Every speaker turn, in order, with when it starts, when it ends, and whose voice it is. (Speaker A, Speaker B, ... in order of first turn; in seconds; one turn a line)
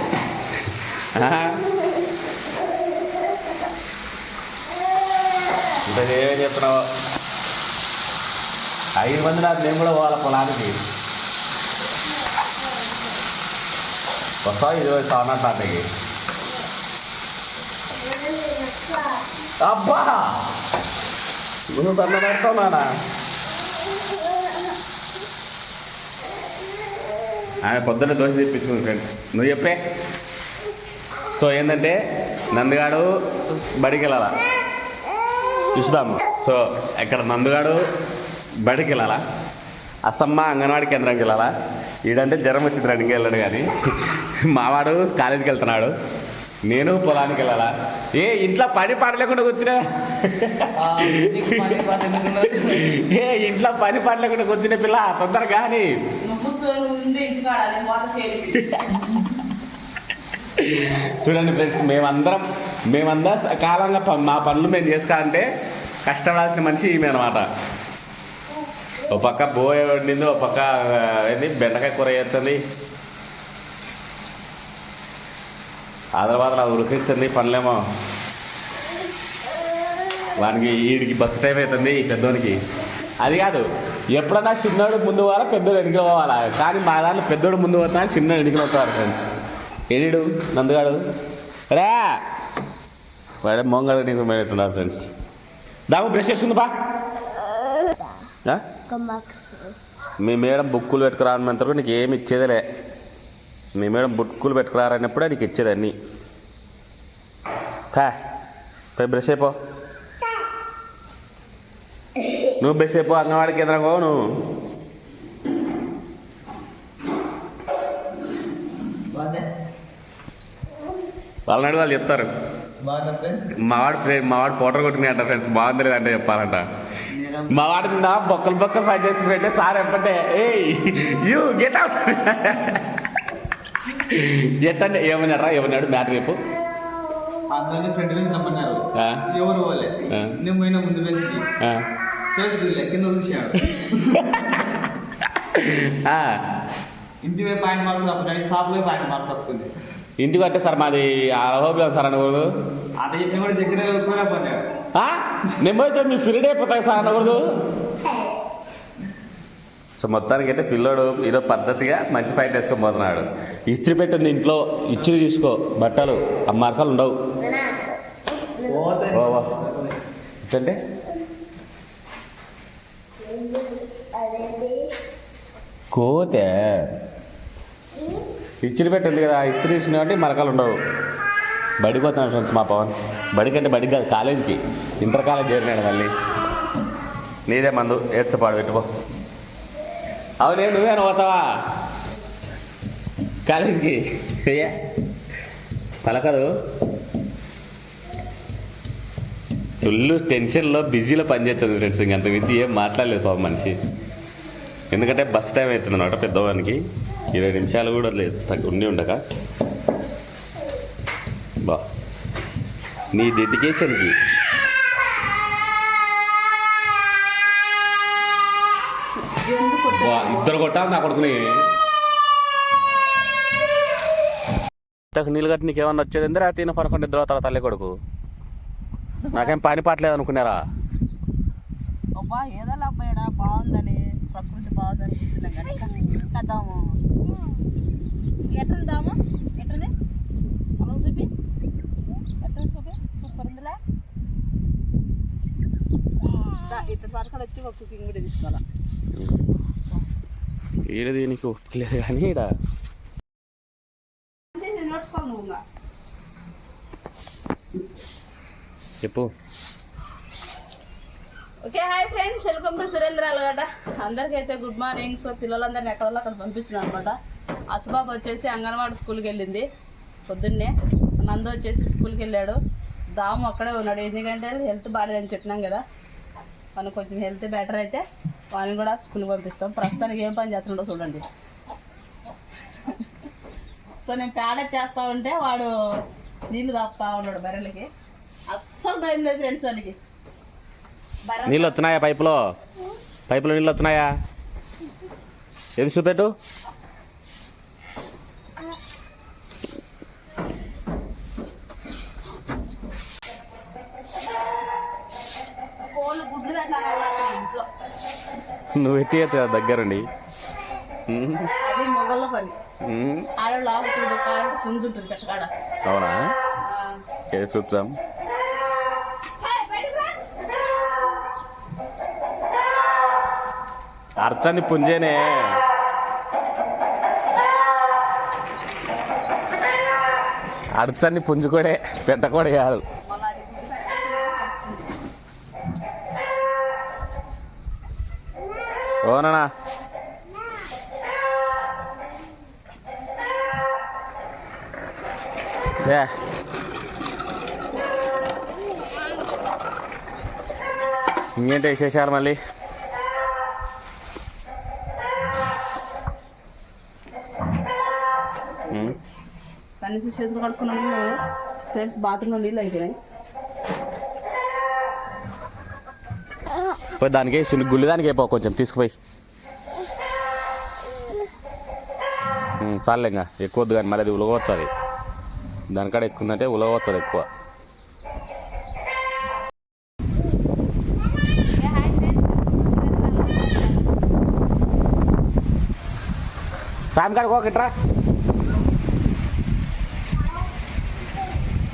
Speaker A: 1.1-1.6
Speaker A: 5.8-6.8
Speaker A: 8.9-10.8
Speaker A: 14.4-15.9
Speaker A: 19.6-20.4
Speaker A: 21.7-22.9
Speaker A: 27.6-29.8
Speaker A: 31.3-32.0
Speaker A: 32.5-34.4
Speaker A: 35.7-37.8
Speaker A: 38.6-39.2
Speaker A: 40.0-41.5
Speaker A: 42.0-45.9
Speaker A: 46.6-51.7
Speaker B: 50.8-52.8
Speaker A: 52.4-55.9
Speaker C: 56.2-58.6
Speaker A: 58.5-59.0
Speaker A: 60.5-65.5
Speaker A: 66.0-67.5
Speaker A: 69.1-72.6
Speaker A: 76.2-77.8
Speaker A: 80.4-82.6
Speaker A: 83.2-89.2
Speaker A: 89.9-91.0
Speaker A: 91.7-92.2
Speaker A: 93.4-95.1
Speaker A: 95.9-96.7
Speaker C: 98.9-99.6
Speaker A: 100.2-102.6
Speaker A: 103.8-105.9
Speaker A: 109.0-109.5
Speaker A: 112.6-114.2
Speaker B: 119.1-119.5
Speaker A: 121.5-122.3
Speaker B: 122.8-123.5
Speaker A: 123.6-126.6
Speaker B: 127.1-127.7
Speaker A: 127.5-132.8
Speaker A: 133.9-136.4
Speaker B: 137.5-141.5
Speaker A: 138.9-139.2
Speaker A: 140.1-140.3
Speaker B: 142.3-144.3
Speaker A: 143.6-144.5
Speaker A: 145.2-146.4
Speaker B: 147.2-149.7
Speaker A: 150.2-152.5
Speaker B: 153.0-154.6
Speaker A: 154.9-157.5
Speaker A: 160.0-167.1
Speaker B: 168.6-169.9
Speaker A: 169.1-169.5
Speaker A: 170.4-170.8
Speaker A: 175.9-176.9
Speaker A: 178.6-180.7
Speaker A: 181.8-186.1
Speaker A: 187.5-188.8
Speaker A: 190.4-191.4
Speaker A: 193.4-194.7
Speaker A: 196.0-196.5
Speaker A: 199.8-203.8
Speaker A: 204.9-209.2
Speaker A: 213.1-214.1
Speaker C: 219.3-220.5
Speaker A: 219.9-221.5
Speaker A: 225.1-227.9
Speaker C: 229.2-229.6
Speaker A: 229.3-230.6
Speaker C: 232.2-237.0
Speaker C: 238.5-239.9
Speaker C: 240.8-241.3
Speaker C: 242.4-243.8
Speaker C: 246.5-248.6
Speaker A: 250.9-252.5
Speaker C: 254.5-255.6
Speaker A: 259.0-259.3
Speaker C: 261.6-267.1
Speaker C: 267.7-269.6
Speaker C: 270.3-272.6
Speaker C: 273.2-275.8
Speaker C: 276.8-281.2
Speaker C: 284.1-285.7
Speaker C: 286.5-287.9
Speaker C: 288.5-290.0
Speaker C: 291.2-291.8
Speaker A: 291.4-292.4
Speaker A: 293.3-294.1
Speaker A: 295.8-296.3
Speaker C: 305.9-307.7
Speaker A: 308.7-310.1
Speaker A: 311.1-311.4
Speaker C: 311.5-312.6
Speaker A: 312.8-313.3
Speaker C: 313.4-315.5
Speaker A: 315.8-316.3
Speaker C: 316.6-316.9
Speaker A: 317.3-317.9
Speaker C: 319.4-320.2
Speaker A: 324.2-325.6
Speaker A: 330.8-332.8
Speaker C: 333.1-334.9
Speaker A: 339.0-339.5
Speaker A: 345.8-346.1
Speaker A: 351.4-352.4
Speaker A: 358.7-359.0
Speaker C: 359.8-361.2
Speaker C: 361.7-362.9
Speaker A: 367.0-368.9
Speaker A: 372.6-374.7
Speaker A: 375.7-377.2
Speaker C: 381.6-383.9
Speaker A: 386.9-387.7